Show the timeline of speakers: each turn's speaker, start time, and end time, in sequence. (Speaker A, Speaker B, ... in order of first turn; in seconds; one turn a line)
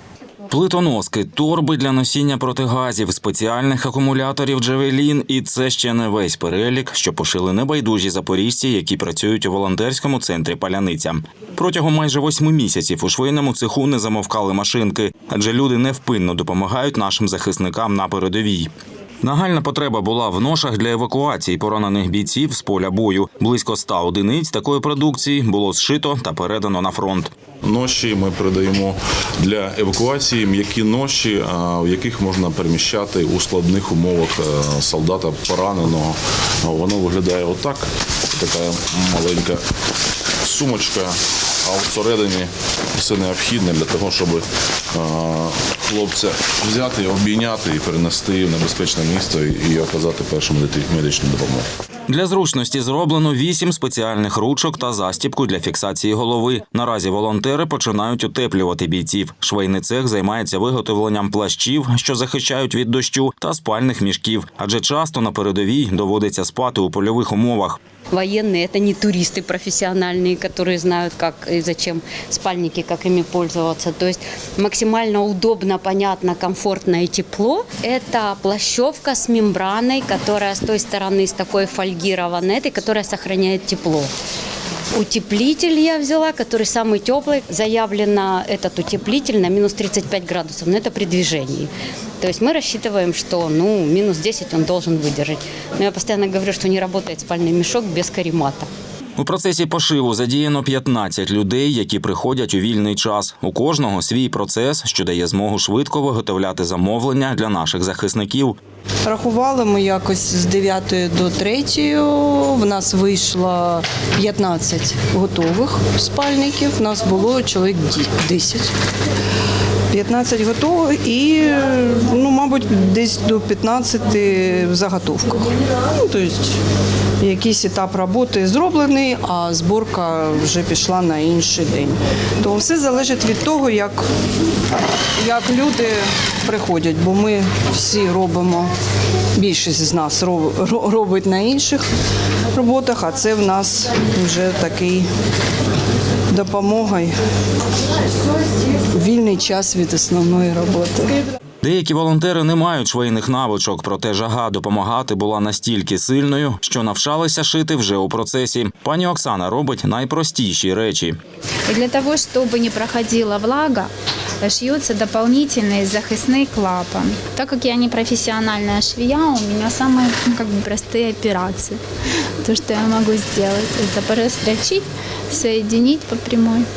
Speaker A: 0.5-18.7
Speaker A: 19.2-27.3
Speaker B: 27.6-39.6
Speaker B: 40.4-51.7
Speaker A: 52.1-67.8
Speaker C: 68.1-84.1
Speaker C: 84.9-98.7
Speaker A: 99.2-108.6
Speaker D: 109.0-118.7
Speaker D: 119.9-126.6
Speaker D: 127.2-134.0
Speaker D: 135.2-138.7
Speaker D: 139.3-141.8
Speaker D: 142.5-145.1
Speaker D: 146.3-147.1
Speaker D: 148.9-151.2
Speaker A: 151.6-161.2
Speaker E: 161.7-163.9
Speaker E: 164.4-171.8
Speaker E: 172.4-176.7